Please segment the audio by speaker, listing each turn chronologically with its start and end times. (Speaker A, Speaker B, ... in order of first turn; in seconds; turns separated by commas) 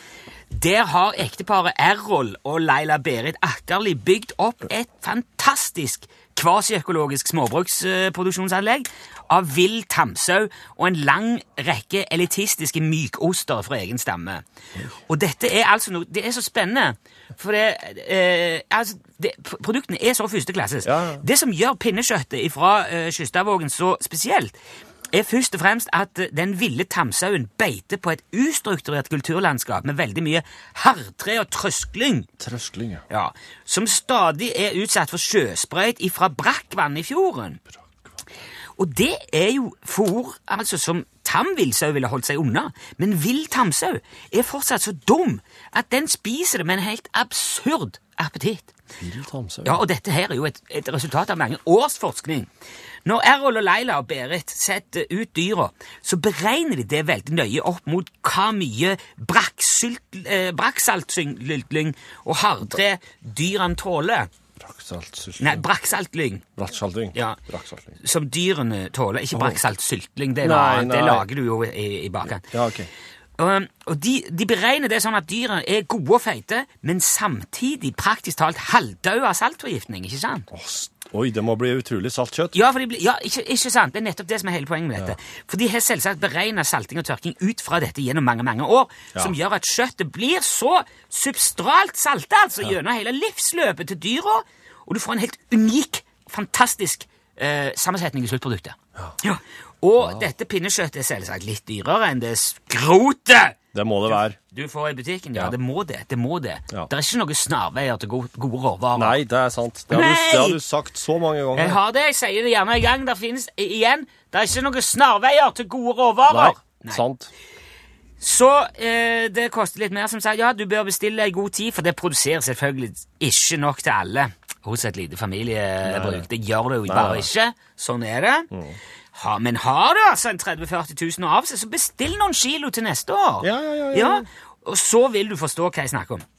Speaker A: 0.5-14.4, Speaker A: 15.1-24.6, Speaker B: 20.8-21.2, Speaker A: 25.1-32.3, Speaker B: 32.4-33.0, Speaker A: 33.1-37.6, Speaker B: 37.8-38.1, Speaker A: 38.8-48.7, Speaker B: 49.0-49.8, Speaker A: 49.6-52.5, Speaker A: 53.0-64.3, Speaker B: 64.6-65.6, Speaker A: 65.4-66.4, Speaker B: 66.6-68.0, Speaker A: 67.1-67.4, Speaker A: 68.0-72.5, Speaker B: 69.3-69.7, Speaker B: 70.4-71.3, Speaker B: 72.5-72.9, Speaker A: 73.4-80.5, Speaker B: 80.5-82.5, Speaker A: 82.5-103.6, Speaker B: 103.7-104.4, Speaker A: 104.5-109.2, Speaker B: 109.0-111.8, Speaker A: 109.9-110.6, Speaker A: 111.5-117.0, Speaker B: 116.3-117.3, Speaker A: 118.2-128.5, Speaker B: 125.8-126.3, Speaker B: 126.9-127.3, Speaker B: 128.5-128.8, Speaker A: 129.1-136.2, Speaker B: 133.4-134.3